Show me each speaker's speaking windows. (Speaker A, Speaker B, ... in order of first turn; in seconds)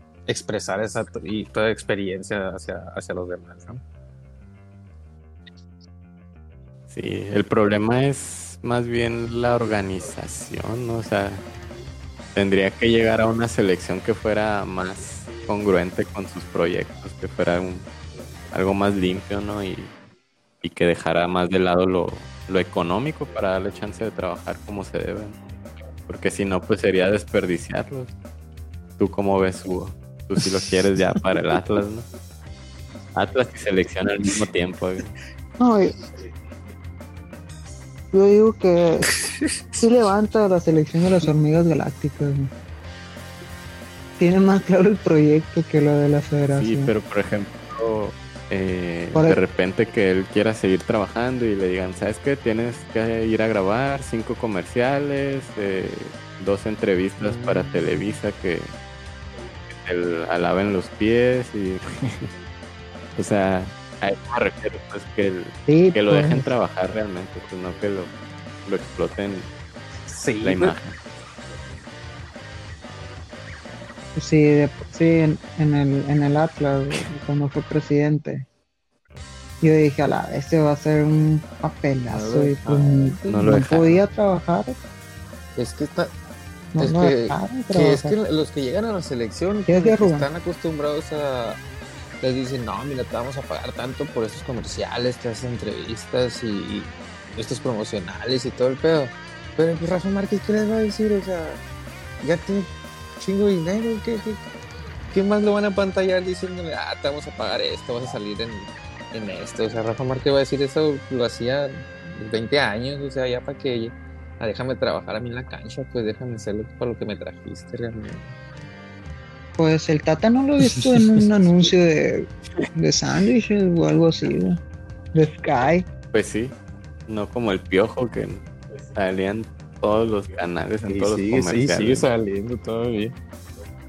Speaker A: 0.3-3.8, 30.6-31.3, 39.1-39.9, 57.2-58.1, 70.1-70.8, 82.1-83.1, 85.5-86.1, 86.8-91.6, 92.2-101.6, 102.2-102.7, 103.2-104.4, 105.1-118.3, 120.6-121.3, 130.9-133.1
Speaker B: 6.9-11.4, 12.3-17.9, 18.5-19.9, 20.6-25.4, 26.1-28.1, 29.0-32.0, 33.1-35.1, 46.5-58.7, 59.7-62.3, 63.1-68.1, 68.7-69.5, 70.4-71.0, 83.3-84.0, 126.1-126.5, 127.1-132.1
Speaker C: 35.6-35.9, 38.1-39.1, 39.8-42.5, 44.2-46.9, 49.1-49.4, 65.7-66.5, 74.1-78.5, 79.6-84.8, 86.7-88.1, 89.7-90.3, 119.6-124.6, 125.1-125.9